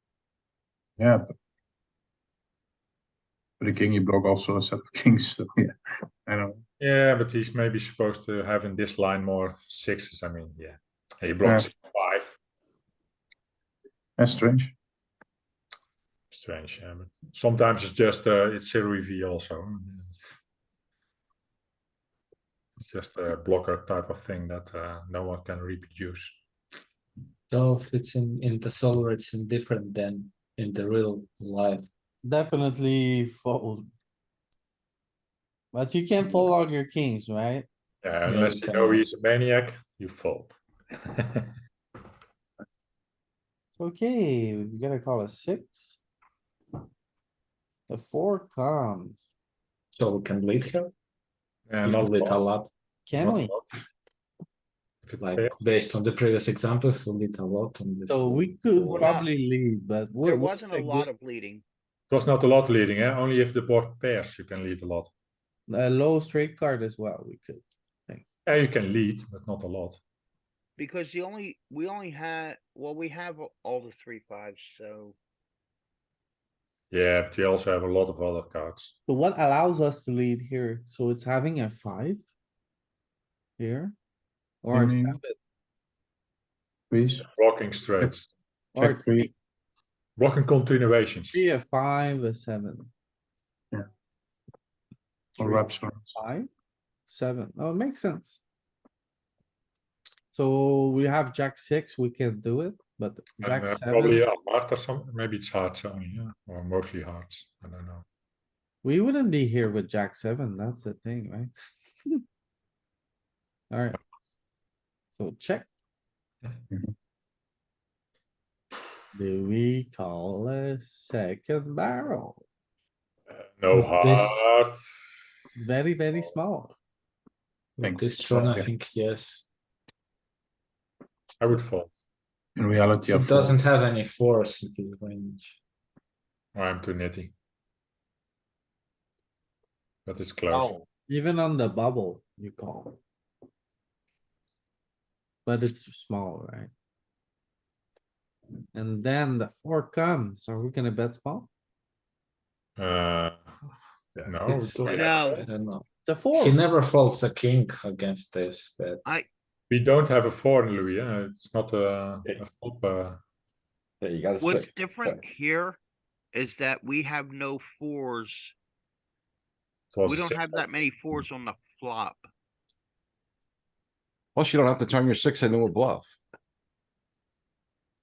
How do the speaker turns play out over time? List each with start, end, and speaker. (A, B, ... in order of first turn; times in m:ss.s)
0:01.0-0:01.3 A
0:03.6-0:06.6 A
0:06.8-0:12.4 B
0:11.4-0:11.7 A
0:14.2-0:14.7 A
0:16.3-0:20.4 B
0:22.8-0:26.4 B
0:27.5-0:31.9 C
0:32.2-0:33.9 D
0:35.7-0:37.7 D
0:38.0-0:41.5 B
0:38.3-0:39.0 C
0:43.7-0:46.0 D
0:47.9-0:49.2 D
0:49.9-0:50.9 C
0:51.7-0:52.5 B
0:51.8-0:52.7 C
0:53.1-0:53.6 D
0:53.1-0:53.8 B
0:55.0-0:55.6 B
0:55.2-0:59.2 C
0:58.1-1:01.1 D
0:58.9-0:59.3 E
1:00.2-1:01.6 E
1:02.1-1:05.1 B
1:05.7-1:08.2 D
1:08.4-1:10.0 B
1:10.8-1:15.1 E
1:16.9-1:18.9 B
1:19.1-1:22.2 D
1:23.6-1:23.9 D
1:24.6-1:25.4 D
1:24.7-1:25.2 A
1:26.9-1:27.3 A
1:27.3-1:28.3 B
1:28.7-1:29.3 D
1:28.8-1:29.3 A
1:30.2-1:31.4 B
1:31.3-1:32.9 D
1:35.4-1:36.1 A
1:35.4-1:36.5 D
1:37.1-1:38.4 D
1:40.3-1:44.2 D
1:43.4-1:48.0 B
1:48.8-1:51.5 D
1:53.7-1:54.0 D
1:55.1-1:55.7 D
1:59.1-2:02.4 D
2:03.3-2:04.9 B
2:03.7-2:04.5 C
2:05.5-2:06.8 D
2:07.8-2:09.5 C
2:07.8-2:08.7 A
2:11.4-2:11.9 B
2:12.6-2:13.6 A
2:13.1-2:15.6 C
2:16.5-2:17.3 B
2:20.1-2:20.7 B
2:20.5-2:20.8 E
2:21.1-2:23.0 D
2:25.4-2:26.7 D
2:28.7-2:31.5 D
2:32.8-2:33.5 B
2:34.2-2:35.3 B
2:34.4-2:39.0 C
2:34.9-2:35.5 E
2:36.0-2:36.6 D
2:39.7-2:43.2 B
2:44.0-2:45.2 F
2:44.4-2:45.8 E
2:46.3-2:48.5 E
2:49.9-2:50.5 B
2:50.1-2:52.2 E
2:54.3-2:56.1 F